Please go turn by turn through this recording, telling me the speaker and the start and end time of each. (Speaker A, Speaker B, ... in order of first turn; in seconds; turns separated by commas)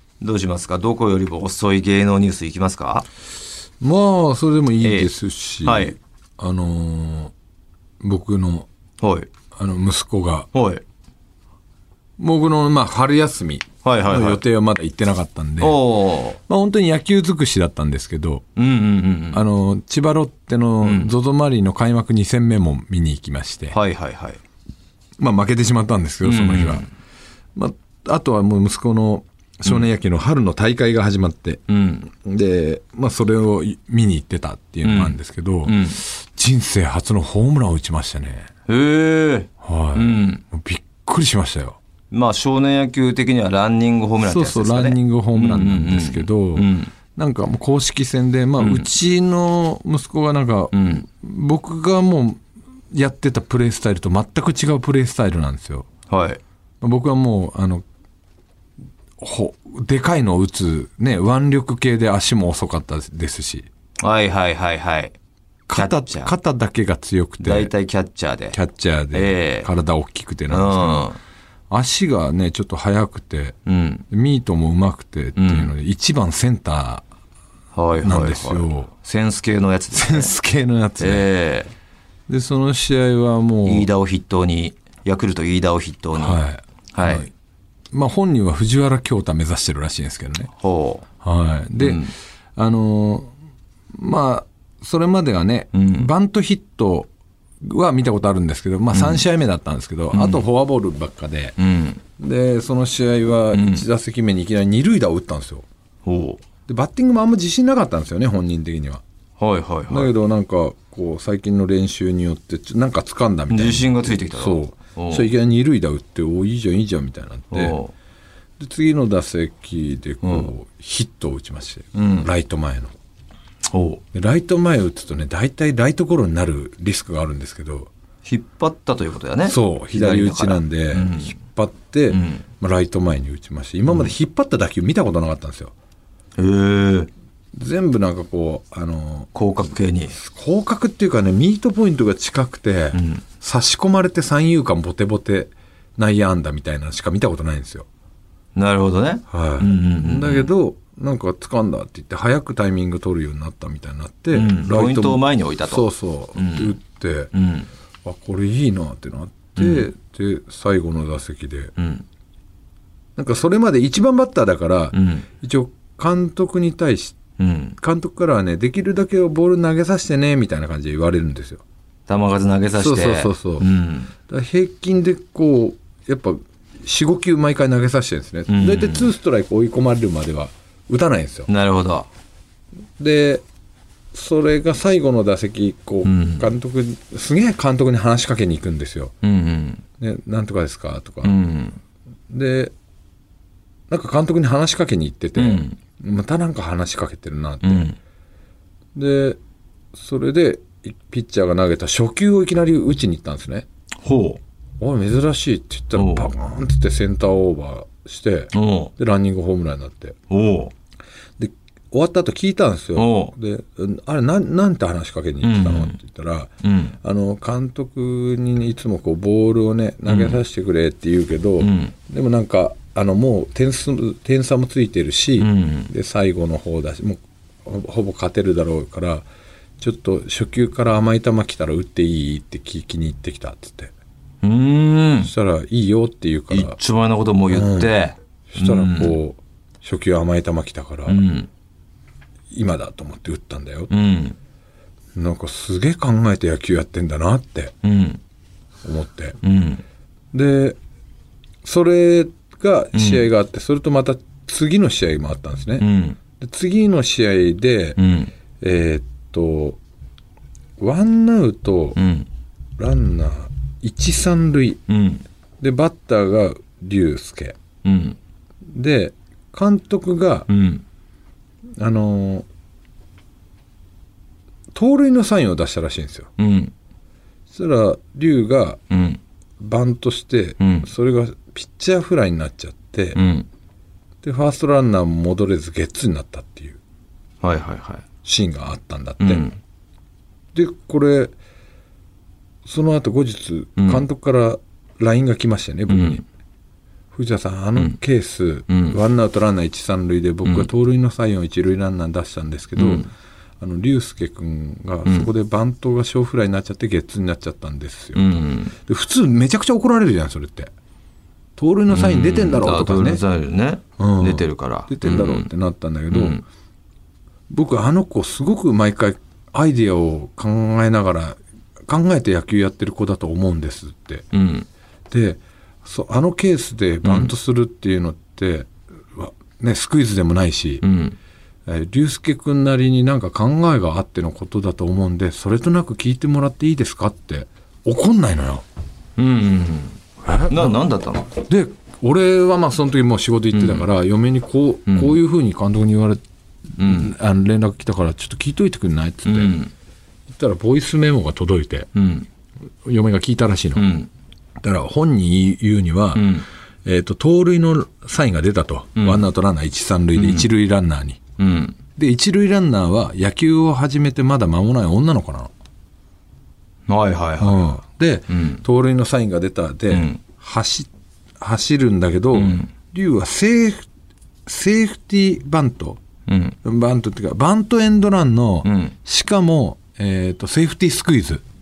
Speaker A: 0.2-3.1, Speaker B: 3.8-7.3, Speaker A: 4.8-5.1, Speaker A: 5.6-6.0, Speaker B: 8.0-8.7, Speaker A: 9.0-9.3, Speaker B: 9.5-10.5, Speaker A: 10.5-10.8, Speaker B: 12.2-15.8, Speaker A: 13.8-14.4, Speaker A: 15.6-16.4, Speaker B: 16.5-18.5, Speaker A: 18.6-19.4, Speaker B: 19.3-23.8, Speaker A: 20.8-21.1, Speaker A: 23.7-24.4, Speaker B: 25.2-26.9, Speaker A: 26.2-26.9, Speaker B: 27.5-38.5, Speaker A: 31.7-32.1, Speaker A: 34.8-36.0, Speaker A: 38.7-40.4, Speaker B: 39.6-41.8, Speaker A: 42.1-46.9, Speaker B: 44.2-55.9, Speaker A: 48.6-48.9, Speaker A: 50.7-51.0, Speaker A: 56.1-56.4, Speaker B: 56.8-57.8, Speaker B: 59.2-63.7, Speaker A: 64.0-65.1, Speaker B: 65.7-67.7, Speaker A: 65.7-66.3, Speaker A: 67.4-68.6, Speaker B: 68.5-71.1, Speaker A: 69.1-69.7, Speaker A: 70.5-71.2, Speaker B: 71.7-73.6, Speaker A: 73.7-74.0, Speaker B: 74.1-77.0, Speaker A: 75.4-75.7, Speaker A: 77.7-80.3, Speaker B: 78.0-78.9, Speaker B: 79.9-81.3, Speaker A: 81.0-81.7, Speaker B: 82.3-83.9, Speaker A: 83.6-86.4, Speaker B: 86.1-87.3, Speaker A: 86.9-87.3, Speaker B: 87.9-90.5, Speaker A: 90.6-91.1, Speaker B: 91.2-93.3, Speaker A: 91.8-92.1, Speaker B: 93.9-97.1, Speaker A: 95.7-96.1, Speaker B: 97.6-101.5, Speaker A: 98.9-99.2, Speaker A: 100.1-100.4, Speaker A: 101.6-102.0, Speaker B: 102.2-105.7, Speaker A: 103.5-103.8, Speaker A: 106.0-106.4, Speaker B: 106.7-109.0, Speaker A: 109.4-110.1, Speaker B: 109.9-117.8, Speaker A: 113.5-115.3, Speaker A: 117.5-117.9, Speaker B: 118.6-122.9, Speaker A: 120.2-120.5, Speaker A: 122.0-122.3, Speaker A: 123.7-124.0, Speaker B: 124.1-127.9, Speaker A: 128.2-131.3, Speaker B: 129.4-135.7, Speaker A: 132.1-132.4, Speaker A: 136.4-137.1, Speaker B: 137.5-139.3, Speaker A: 139.3-140.2, Speaker B: 140.1-147.9, Speaker A: 142.9-143.2, Speaker A: 148.5-150.5, Speaker B: 149.3-157.3, Speaker A: 154.3-156.8, Speaker A: 157.3-157.7, Speaker B: 158.0-161.7, Speaker A: 159.6-159.9, Speaker A: 161.8-162.0, Speaker B: 163.2-167.2, Speaker A: 164.9-165.3, Speaker A: 167.4-167.8, Speaker B: 167.8-171.6, Speaker A: 172.1-174.1, Speaker B: 172.7-173.7, Speaker B: 174.3-181.5, Speaker A: 178.5-179.1, Speaker A: 181.5-182.1, Speaker B: 183.0-183.4, Speaker B: 184.1-189.1, Speaker A: 186.0-186.5, Speaker A: 189.2-189.8, Speaker B: 190.0-191.3, Speaker A: 191.2-191.8, Speaker B: 192.3-192.7, Speaker B: 193.9-197.9, Speaker A: 195.3-195.8, Speaker A: 197.6-198.0, Speaker B: 198.9-199.4, Speaker B: 199.9-203.7, Speaker A: 204.0-204.4, Speaker B: 204.8-210.2, Speaker A: 205.9-206.3, Speaker A: 208.5-208.9, Speaker A: 210.3-210.7, Speaker B: 211.4-229.3, Speaker A: 212.9-213.3, Speaker A: 215.4-216.0, Speaker A: 216.6-216.9, Speaker A: 220.1-220.4, Speaker A: 221.6-221.9, Speaker A: 225.4-225.9, Speaker B: 229.8-233.9, Speaker A: 234.4-235.3, Speaker B: 235.2-236.8, Speaker A: 236.5-239.2, Speaker B: 237.5-237.9, Speaker B: 238.5-241.2, Speaker A: 241.1-241.5, Speaker B: 242.5-243.9, Speaker A: 243.9-244.3, Speaker B: 245.1-247.7, Speaker A: 247.8-248.2, Speaker B: 248.8-249.4, Speaker A: 249.4-249.8, Speaker B: 250.3-250.8, Speaker B: 251.6-255.8, Speaker A: 252.9-253.2, Speaker A: 255.8-256.2, Speaker B: 256.4-258.0, Speaker A: 258.0-258.3, Speaker B: 258.6-259.8, Speaker B: 260.8-262.0, Speaker A: 261.9-262.3, Speaker B: 262.8-264.8, Speaker A: 264.9-265.2, Speaker B: 265.6-267.6, Speaker A: 267.8-268.2, Speaker B: 268.7-270.5, Speaker A: 270.5-270.8, Speaker B: 271.8-272.4, Speaker B: 274.7-276.3, Speaker A: 276.4-276.7, Speaker B: 277.5-278.8, Speaker A: 278.9-279.2, Speaker B: 279.6-283.2, Speaker A: 280.6-280.9, Speaker A: 283.1-283.5, Speaker B: 284.2-286.8, Speaker A: 287.4-288.0, Speaker B: 288.2-289.5, Speaker A: 289.2-289.6, Speaker B: 290.5-291.3, Speaker B: 292.6-296.2, Speaker A: 293.8-294.1, Speaker A: 295.9-296.2, Speaker B: 297.1-303.1, Speaker A: 298.7-299.0, Speaker A: 302.8-303.1, Speaker B: 303.6-310.7, Speaker A: 308.1-308.7, Speaker B: 311.6-313.2, Speaker A: 311.9-315.5, Speaker B: 314.0-316.4, Speaker A: 316.1-316.4, Speaker B: 317.5-324.3, Speaker A: 324.3-324.7, Speaker B: 325.1-330.8, Speaker A: 327.0-327.3, Speaker A: 330.8-331.2, Speaker B: 331.6-338.6, Speaker A: 339.2-341.3, Speaker B: 340.2-340.8, Speaker B: 341.4-346.2, Speaker A: 343.5-343.9, Speaker A: 344.9-345.2, Speaker B: 346.8-349.5, Speaker A: 346.8-347.1, Speaker A: 349.2-349.7, Speaker B: 350.3-351.9, Speaker A: 351.9-352.3, Speaker B: 352.8-353.8, Speaker A: 353.7-354.1, Speaker B: 354.6-356.3, Speaker A: 356.1-356.4, Speaker B: 356.8-361.2, Speaker A: 359.0-359.2, Speaker A: 360.1-360.5, Speaker A: 361.4-361.8, Speaker B: 361.9-365.5, Speaker A: 366.9-367.6, Speaker B: 367.4-373.8, Speaker A: 368.3-368.6, Speaker A: 369.9-370.2, Speaker A: 372.3-372.7, Speaker B: 374.4-376.0, Speaker A: 376.3-376.6, Speaker B: 376.6-381.4, Speaker A: 378.6-378.9